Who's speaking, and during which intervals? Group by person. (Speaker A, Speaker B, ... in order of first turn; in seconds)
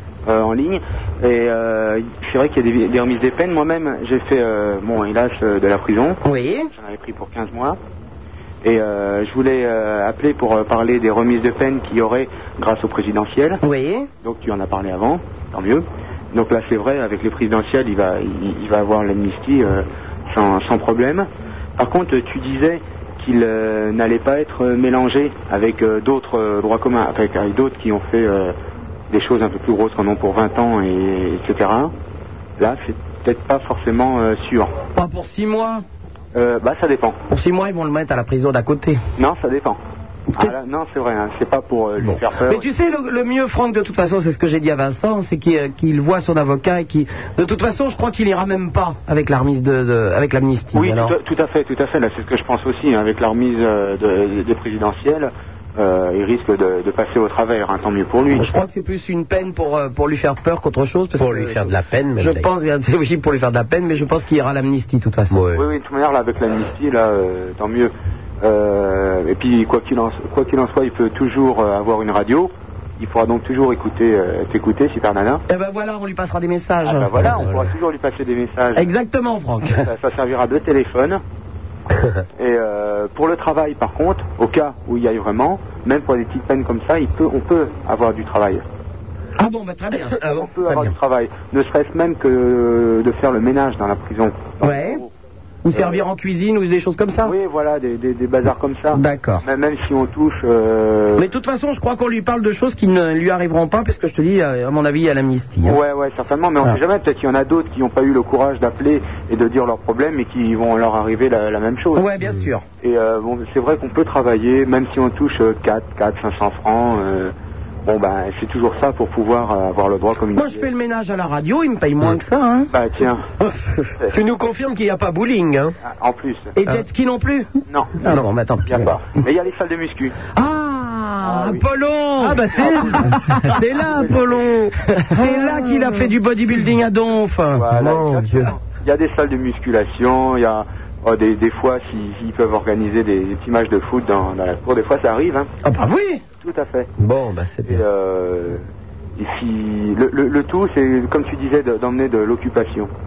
Speaker A: 0.2-6.2, 6.7-7.8, 8.6-13.6, 14.2-28.5, 29.1-31.9, 32.6-34.8, 36.3-37.2, 39.2-39.8, 40.4-42.7, 50.7-58.5, 65.5-75.4, 76.8-78.9, 79.8-81.2, 82.3-88.6, 90.3-95.1, 95.8-96.0, 97.2-101.2, 105.6-112.1, 112.8-117.3, 117.8-120.7, 122.7-123.3, 125.8-126.5, 127.7-128.0, 128.7-130.2, 131.2-131.7, 132.4-134.5, 137.5-145.5, 146.4-146.9, 147.6-148.6, 149.2-152.9
Speaker B: 6.2-6.7, 13.6-14.1, 34.9-35.8, 37.3-39.0, 42.4-51.1, 58.3-65.4, 75.5-77.4, 78.7-79.8, 89.4-90.2, 94.6-95.0, 95.6-97.3, 98.9-99.4, 101.2-105.8, 112.0-112.6, 120.3-122.7, 123.5-123.9, 126.5-127.5, 128.0-128.9, 130.3-134.2, 135.0-137.7, 145.6-146.2
Speaker C: 61.2-62.5, 65.3-65.6, 77.2-77.6, 90.2-90.9, 124.1-125.7, 132.2-136.1, 137.7-138.5, 147.0-147.8